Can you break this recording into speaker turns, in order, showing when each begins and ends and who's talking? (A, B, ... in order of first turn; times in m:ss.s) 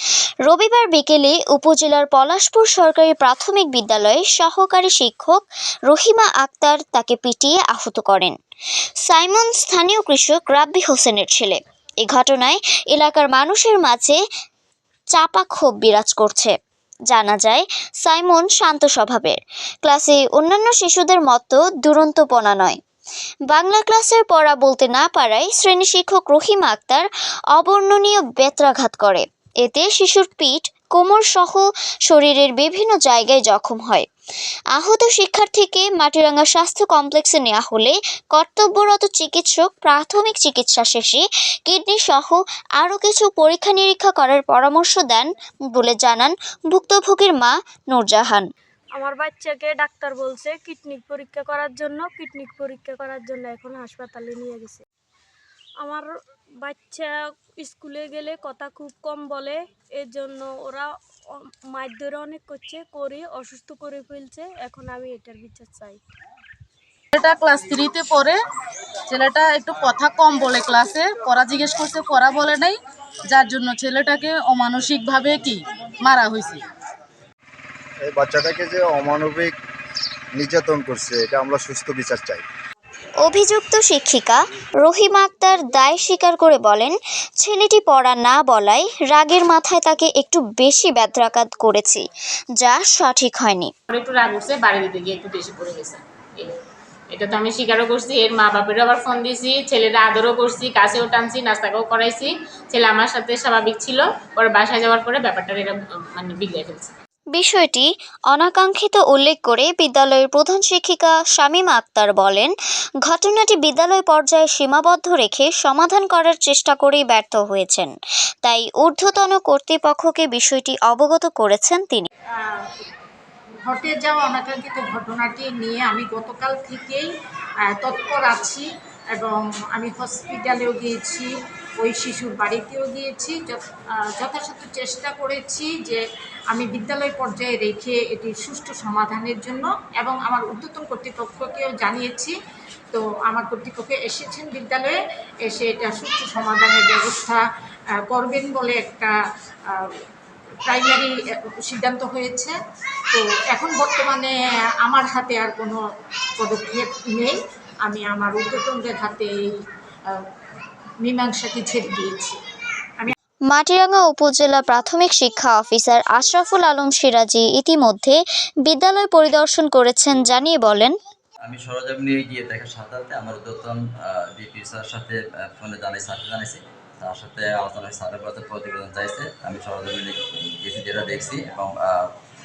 0:00.4-0:08.3 A
0:09.1-0:14.2 A
0:15.1-0:16.6 A
0:17.1-0:22.8 A
0:23.5-0:34.1 A
0:34.7-0:48.5 A
0:49.0-0:54.8 B
0:55.8-0:56.1 B
0:56.6-1:06.0 B
1:07.1-1:08.4 C
1:09.1-1:16.7 C
1:18.0-1:19.6 D
1:20.3-1:22.4 D
1:23.2-1:32.0 A
1:32.6-1:33.7 A
1:33.9-1:36.5 E
1:37.1-1:46.9 E
1:47.3-1:52.5 A
1:53.0-1:57.9 A
1:58.4-2:02.1 A
2:02.4-2:02.8 F
2:03.6-2:07.1 F
2:07.6-2:22.4 F
2:22.9-2:27.4 F
2:28.0-2:30.0 F
2:30.6-2:32.6 F
2:33.1-2:35.8 F
2:36.4-2:40.2 F
2:41.0-2:42.4 F
2:43.5-2:50.9 A
2:51.4-3:02.1 G